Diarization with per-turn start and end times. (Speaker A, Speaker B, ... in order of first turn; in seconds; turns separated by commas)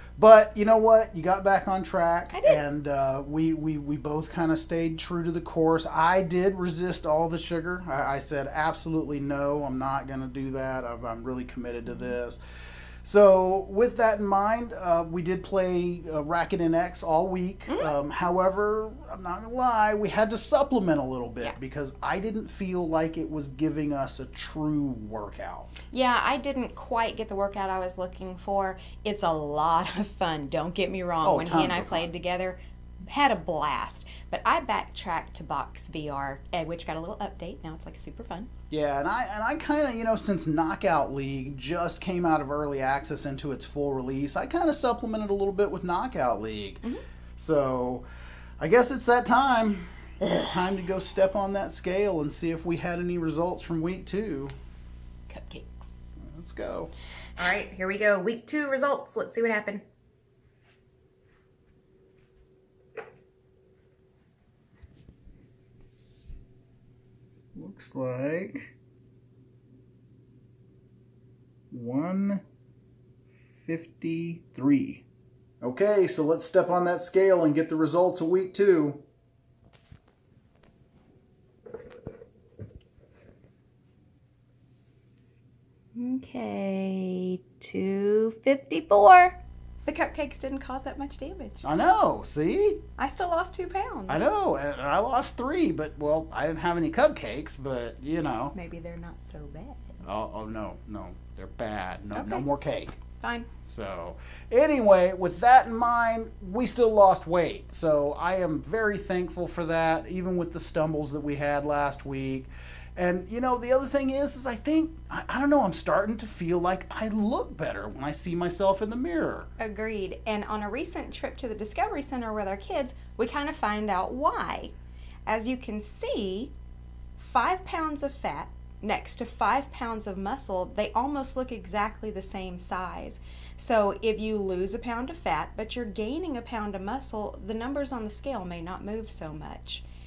Speaker A: 0.2-12.4, Speaker B: 2.3-2.6, Speaker A: 13.0-25.7, Speaker B: 17.7-17.9, Speaker B: 25.9-38.5, Speaker A: 31.2-32.1, Speaker A: 38.7-46.8, Speaker A: 47.4-48.0, Speaker A: 48.6-54.5, Speaker B: 50.2-50.6, Speaker B: 55.3-56.1, Speaker A: 56.2-56.9, Speaker B: 57.4-59.8, Speaker A: 67.5-68.7, Speaker A: 71.7-72.4, Speaker A: 73.6-75.0, Speaker A: 75.6-79.0, Speaker B: 85.9-91.6, Speaker A: 91.6-92.8, Speaker B: 93.0-94.3, Speaker A: 94.1-98.5, Speaker B: 98.5-100.0, Speaker A: 100.0-103.0, Speaker B: 102.1-102.5, Speaker B: 103.2-103.5, Speaker A: 103.6-119.5, Speaker B: 119.6-124.7, Speaker B: 125.2-126.5, Speaker B: 127.2-139.8